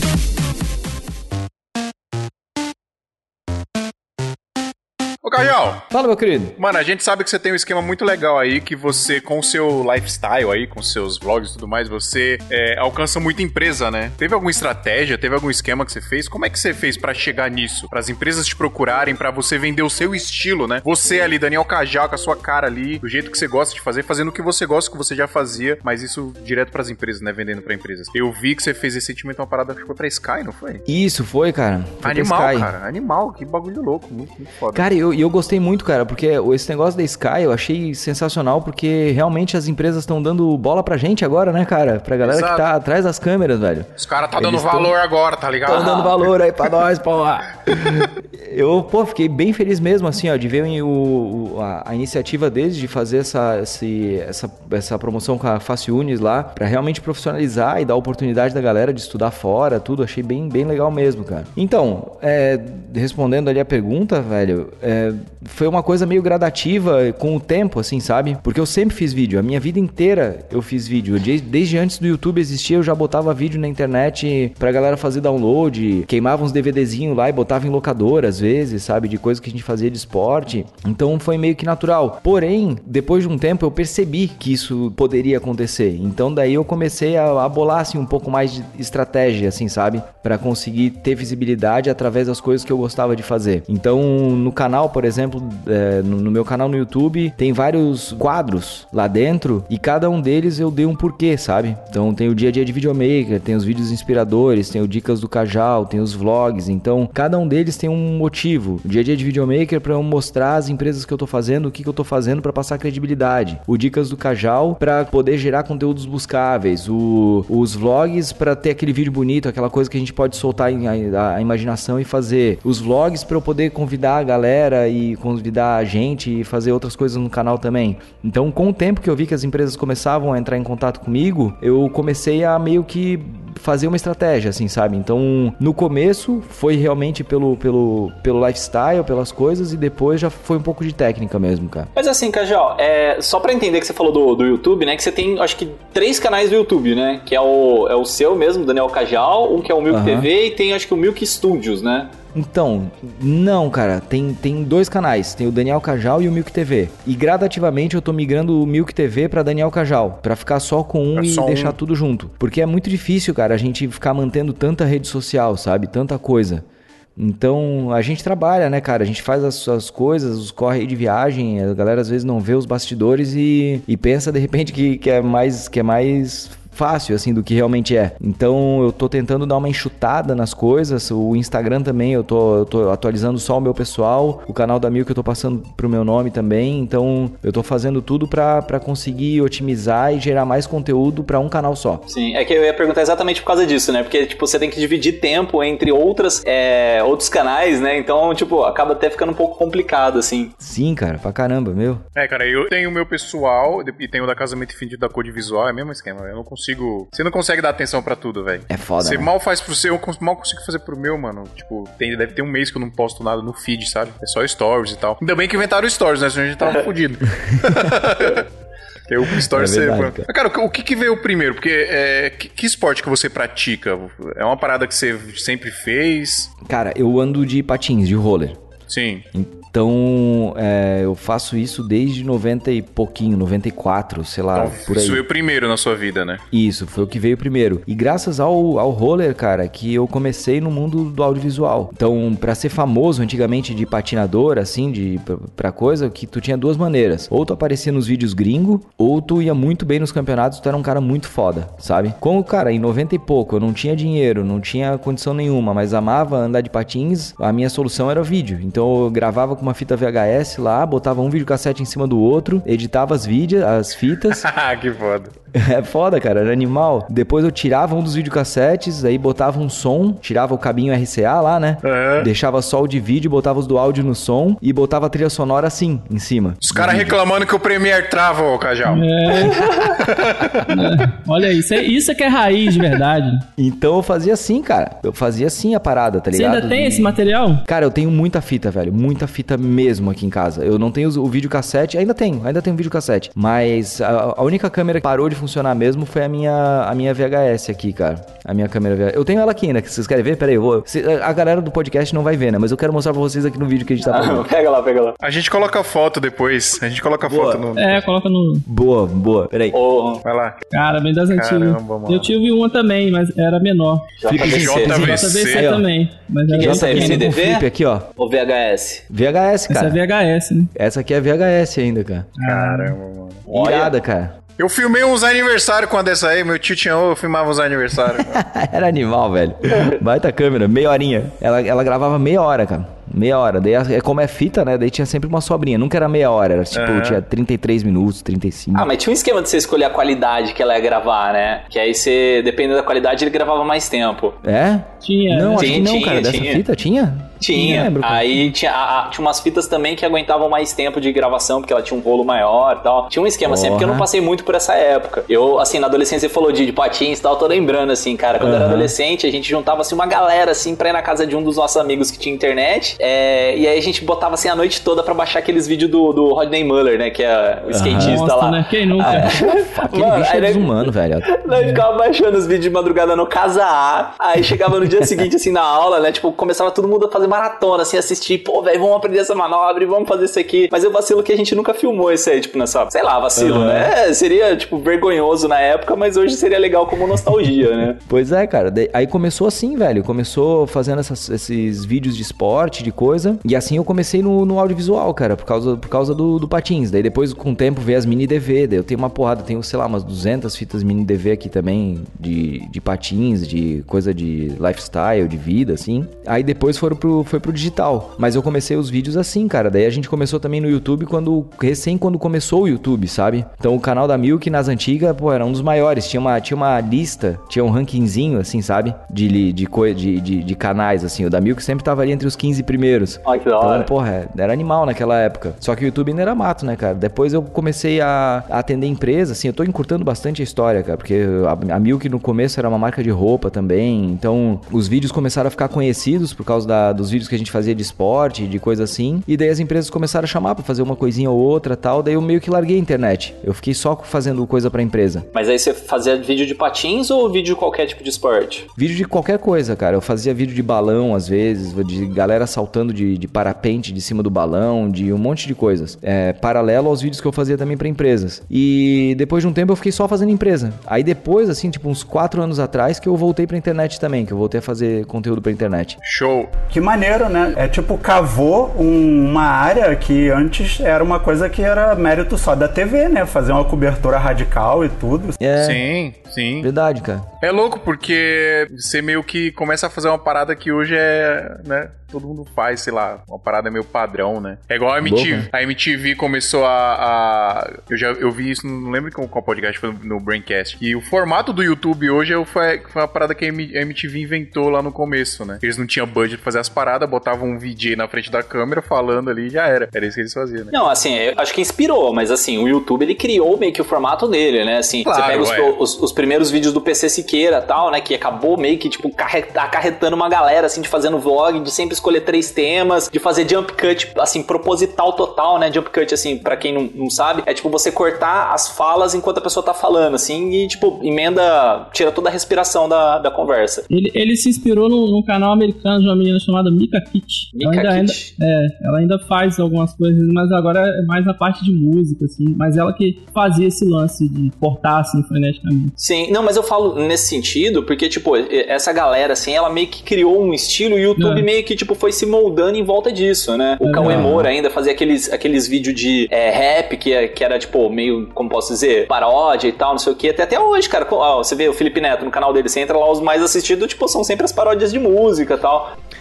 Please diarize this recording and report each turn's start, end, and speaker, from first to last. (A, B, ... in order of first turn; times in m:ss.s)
0:05.2-0:05.8 A
0:05.9-0:06.6 B
0:06.6-0:30.8 A
0:30.9-0:32.7 B
0:32.0-0:34.9 A
0:34.7-0:45.0 B
0:42.2-0:42.6 A
0:44.0-0:46.3 A
0:45.6-2:21.9 B
2:21.9-2:32.1 C
2:29.9-2:30.3 B
2:32.3-2:46.6 B
2:41.1-2:41.8 A
2:47.2-3:12.0 B
3:12.1-3:20.5 C
3:20.6-3:22.0 B
3:22.2-3:38.5 A
3:28.7-3:29.3 B
3:39.1-3:46.5 A
3:39.4-3:40.3 B
3:46.6-3:48.6 B
3:48.9-3:49.2 A
3:49.3-3:55.2 B
3:54.5-3:56.4 A
3:56.5-4:24.5 B
4:24.3-4:25.3 A
4:25.5-4:37.2 B
4:31.8-4:32.3 A
4:36.6-4:40.7 A
4:38.9-4:40.0 D
4:40.7-4:43.4 D
4:43.6-5:04.4 B
4:46.3-4:47.6 D
5:04.1-5:05.2 C
5:05.2-5:08.0 A
5:07.2-5:07.7 B
5:07.8-5:08.6 D
5:08.7-5:09.8 B
5:09.7-5:10.2 C
5:10.2-5:10.6 A
5:10.7-5:14.2 D
5:11.3-5:12.3 A
5:14.2-5:15.2 C
5:14.2-5:15.9 B
5:14.4-5:15.7 A
5:14.8-5:17.3 D
5:16.5-5:17.6 C
5:16.5-5:18.1 B
5:18.2-5:19.0 C
5:19.1-5:20.0 B
5:19.7-5:20.7 D
5:20.7-5:22.3 B
5:22.4-5:23.0 D
5:22.4-5:23.4 A
5:23.5-5:23.9 C
5:23.5-5:24.3 B
5:24.6-5:28.3 A
5:28.2-5:38.9 B
5:36.7-5:37.2 A
5:38.7-5:44.4 C
5:44.4-5:48.5 B
5:45.0-5:45.9 D
5:45.6-5:46.6 C
5:47.4-6:28.0 C
5:47.5-5:47.9 D
5:53.4-5:54.1 B
5:58.4-5:58.9 B
6:07.7-6:08.2 B
6:07.9-6:09.4 D
6:09.0-6:11.4 B
6:11.5-6:11.8 D
6:23.4-6:23.9 B
6:28.0-7:25.3 B
7:03.2-7:03.9 C
7:25.3-7:28.7 C
7:28.8-7:46.0 B
7:46.0-7:46.5 A
7:46.7-7:55.4 E
7:55.4-7:55.8 B
7:55.6-7:56.7 A
7:56.6-7:57.3 B
7:57.4-8:20.7 A
8:05.0-8:05.5 B
8:20.7-8:43.8 C
8:25.0-8:25.7 A
8:43.9-8:55.9 D
8:47.5-8:48.3 C
8:56.0-9:15.9 C
9:01.2-9:01.5 D
9:03.8-9:04.4 D
9:04.0-9:04.5 B